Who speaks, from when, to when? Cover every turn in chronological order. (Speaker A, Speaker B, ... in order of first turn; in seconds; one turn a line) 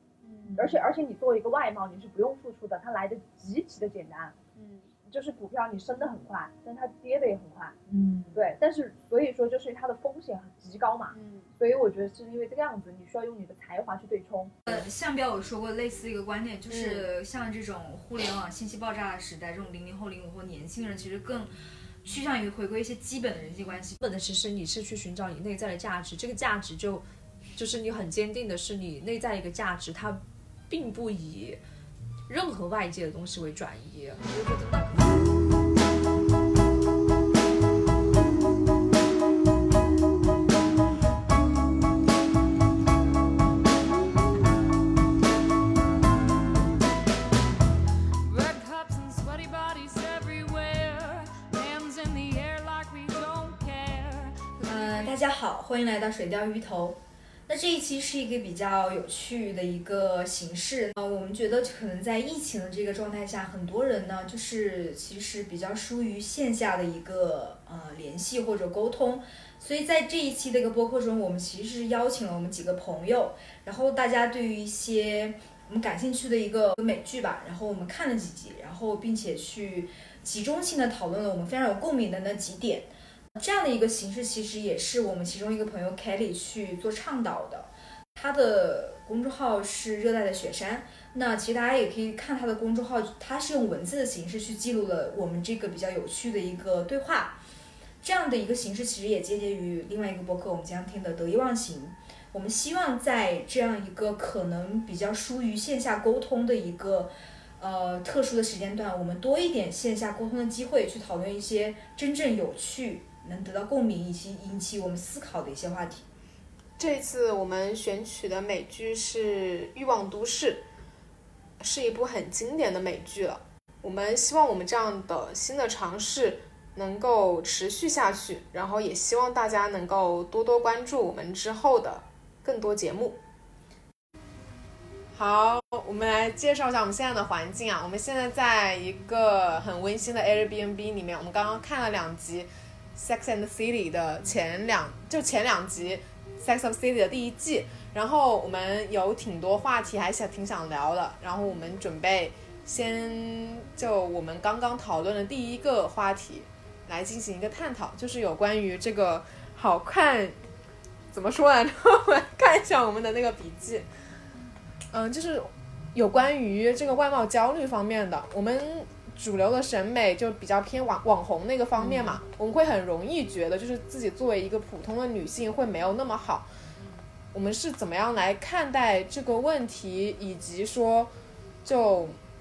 Speaker A: 0.2-0.8
Speaker B: 0.5-4.3
Speaker A: 4.6-4.9
Speaker B: 5.1-7.8
Speaker C: 7.9-8.5
Speaker B: 8.3-14.5
Speaker A: 11.1-11.5
Speaker C: 14.7-21.5
Speaker A: 16.7-17.1
Speaker C: 22.0-24.0
Speaker D: 24.0-31.6
Speaker D: 32.3-35.2
Speaker E: 48.3-55.1
Speaker C: 54.6-97.4
Speaker C: 98.0-116.1
Speaker A: 116.8-120.7
Speaker A: 121.6-133.2
Speaker A: 135.1-160.4
Speaker A: 161.1-163.9
Speaker A: 164.9-176.5
Speaker A: 177.3-181.1
Speaker A: 181.6-182.2